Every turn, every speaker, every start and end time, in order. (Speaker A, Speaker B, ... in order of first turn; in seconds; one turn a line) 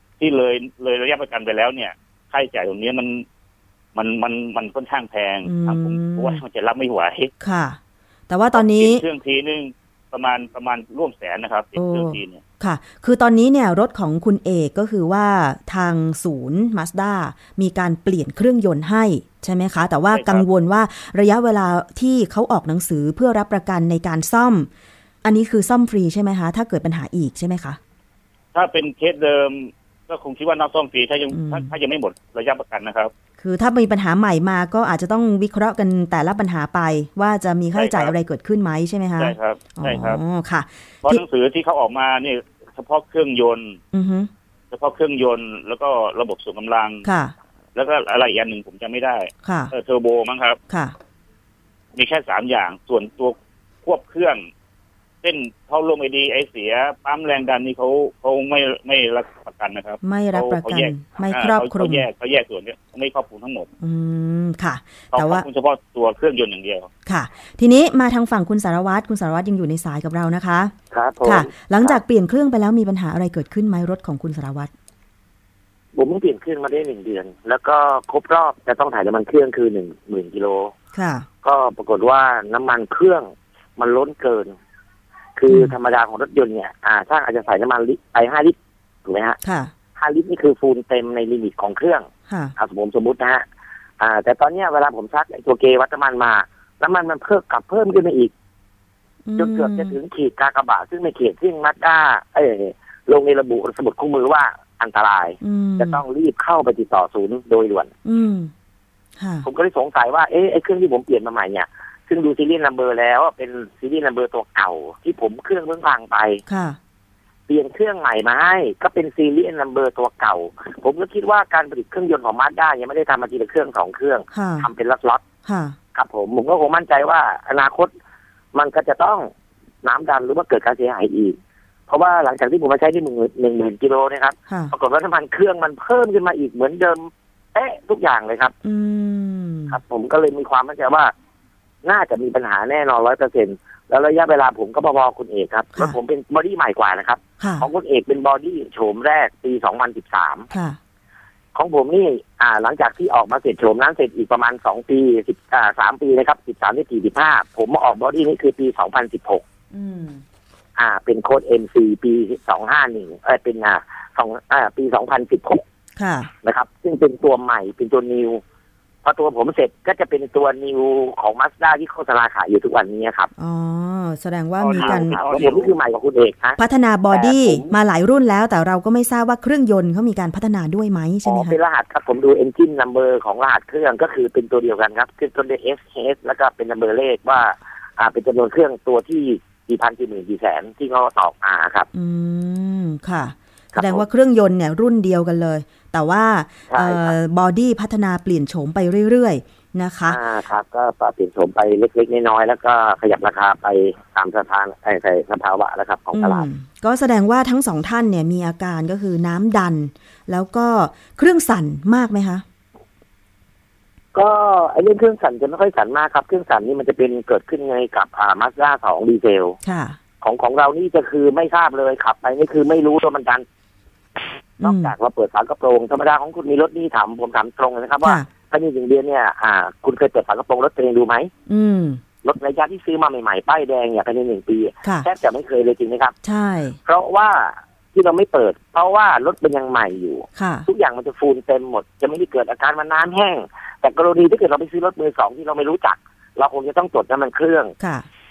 Speaker A: 0.2-3.2
Speaker A: 3.9-7.3
Speaker B: 5.4-6.4
Speaker B: 7.4-9.0
Speaker A: 8.5-12.4
Speaker B: 11.8-24.7
Speaker A: 20.1-20.4
Speaker B: 25.2-27.8
Speaker A: 28.5-33.1
Speaker B: 31.3-31.7
Speaker B: 33.4-41.2
Speaker A: 37.7-38.1
Speaker A: 39.2-40.2
Speaker A: 41.0-43.8
Speaker B: 43.9-44.3
Speaker A: 44.7-47.0
Speaker B: 47.0-47.3
Speaker A: 47.7-50.6
Speaker B: 49.4-49.7
Speaker B: 50.7-51.0
Speaker A: 52.0-54.5
Speaker A: 55.2-63.7
Speaker B: 60.0-62.1
Speaker B: 63.8-65.5
Speaker A: 65.1-66.9
Speaker B: 67.0-74.7
Speaker C: 70.9-72.0
Speaker C: 75.9-80.7
Speaker B: 80.9-81.3
Speaker C: 81.4-84.5
Speaker C: 85.3-89.4
Speaker B: 85.5-85.7
Speaker B: 89.4-89.7
Speaker C: 90.0-93.4
Speaker B: 92.3-92.5
Speaker C: 94.0-98.3
Speaker B: 99.2-100.0
Speaker C: 99.4-107.9
Speaker B: 105.4-106.0
Speaker B: 108.0-108.5
Speaker B: 109.2-109.5
Speaker C: 109.4-116.4
Speaker B: 116.5-116.8
Speaker C: 117.5-125.2
Speaker B: 124.3-124.7
Speaker B: 125.4-125.8
Speaker C: 125.9-127.9
Speaker C: 128.5-129.3
Speaker C: 129.8-138.5
Speaker B: 134.5-134.7
Speaker B: 138.6-139.8
Speaker C: 139.7-141.1
Speaker C: 141.8-150.5
Speaker B: 147.4-147.7
Speaker B: 150.5-150.8
Speaker C: 151.5-159.4
Speaker B: 159.7-160.2
Speaker C: 160.8-165.6
Speaker B: 166.0-166.3
Speaker C: 166.4-168.4
Speaker C: 169.0-173.3
Speaker B: 173.4-175.2
Speaker A: 174.6-175.7
Speaker C: 174.8-177.7
Speaker B: 176.6-181.6
Speaker C: 181.2-191.9
Speaker B: 191.9-200.2
Speaker C: 193.7-194.0
Speaker C: 196.7-197.1
Speaker C: 200.1-206.4
Speaker B: 206.1-212.4
Speaker C: 214.1-219.6
Speaker B: 219.6-220.0
Speaker C: 220.2-223.4
Speaker B: 224.6-224.9
Speaker C: 224.6-231.3
Speaker B: 228.0-228.3
Speaker B: 231.5-232.0
Speaker C: 232.2-236.1
Speaker B: 234.8-235.1
Speaker B: 236.2-236.8
Speaker C: 236.8-247.7
Speaker B: 240.3-240.7
Speaker B: 247.8-248.1